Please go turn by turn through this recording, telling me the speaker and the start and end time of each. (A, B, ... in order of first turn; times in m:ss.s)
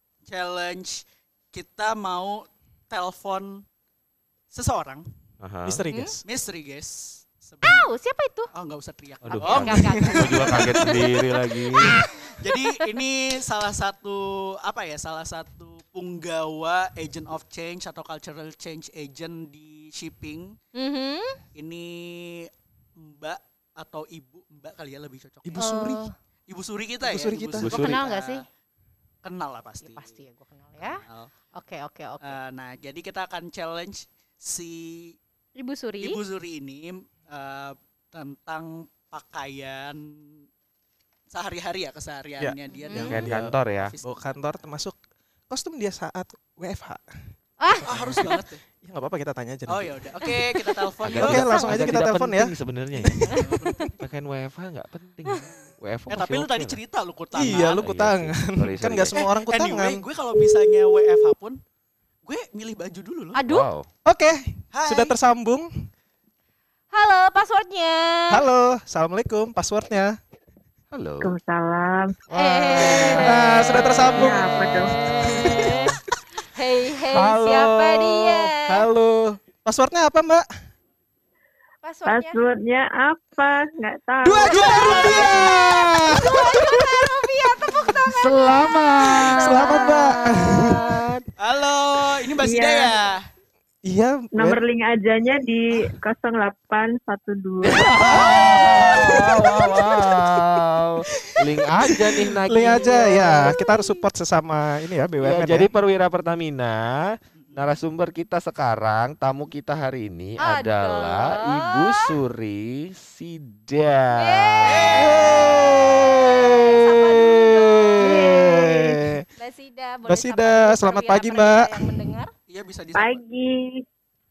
0:00.3-0:03.6 A
0:04.5-0:05.0 A
0:05.4-0:05.8 B
0:05.6-0:06.2 C
0:05.9-0:06.2 D
0:06.2-0:07.9 A
0:07.6-0:08.5 D
0:08.5-0:11.0 A
0:09.2-0:12.0 B
0:09.3-0:12.8 D
0:12.3-0:20.6 A
0:20.7-0:21.4 D
0:21.5-0:25.7 A
0:25.4-0:26.0 C
0:25.6-0:26.1 D
0:26.5-0:28.4 A
0:27.0-0:27.7 C
0:27.6-0:28.0 B
0:27.7-0:28.4 D
0:29.2-0:30.1 A
0:29.8-0:31.0 D
0:30.8-0:31.3 A
0:31.5-0:32.4 D
0:32.2-0:35.2 A
0:35.6-0:36.2 D
0:36.0-0:40.4 A
0:41.3-0:44.4 A
0:42.4-0:45.0 C
0:42.7-0:43.2 D
0:43.0-0:43.9 B
0:45.5-0:47.0 C
0:47.6-0:48.3 D
0:47.8-0:50.0 C
0:47.8-0:48.6 A
0:49.7-0:51.5 A
0:51.0-0:53.3 B
0:51.1-0:53.4 C
0:51.5-0:51.8 D
0:53.2-0:53.9 A
0:54.0-0:56.8 B
0:56.1-0:57.8 A
0:57.3-1:00.0 C
0:57.5-0:59.2 B
0:59.1-1:01.6 A
1:02.2-1:03.4 A
1:03.3-1:03.7 D
1:03.4-1:03.9 B
1:04.0-1:05.9 C
1:04.7-1:05.1 A
1:06.9-1:08.4 D
1:08.3-1:10.2 C
1:10.9-1:11.3 B
1:11.2-1:12.2 E
1:12.3-1:14.3 D
1:12.5-1:13.9 B
1:12.7-1:15.8 C
1:14.0-1:15.0 E
1:15.0-1:18.9 D
1:15.4-1:15.9 B
1:17.1-1:18.5 B
1:18.6-1:20.4 C
1:21.8-1:22.4 D
1:22.0-1:25.3 E
1:24.2-1:27.1 C
1:24.4-1:30.9 D
1:24.5-1:25.5 A
1:28.0-1:31.1 B
1:29.0-1:31.2 C
1:31.4-1:33.2 A
1:32.4-1:33.0 E
1:33.8-1:34.6 C
1:34.3-1:38.2 E
1:37.6-1:43.5 B
1:38.1-1:40.6 C
1:41.2-1:45.7 C
1:42.6-1:44.0 D
1:45.2-1:55.9 B
1:47.4-1:47.7 A
1:50.4-1:52.1 D
1:54.1-1:58.7 D
1:54.6-1:55.6 A
1:54.9-1:59.2 C
1:58.0-1:59.0 E
1:59.3-2:02.3 D
2:00.1-2:02.0 C
2:02.5-2:03.2 A
2:02.9-2:03.8 E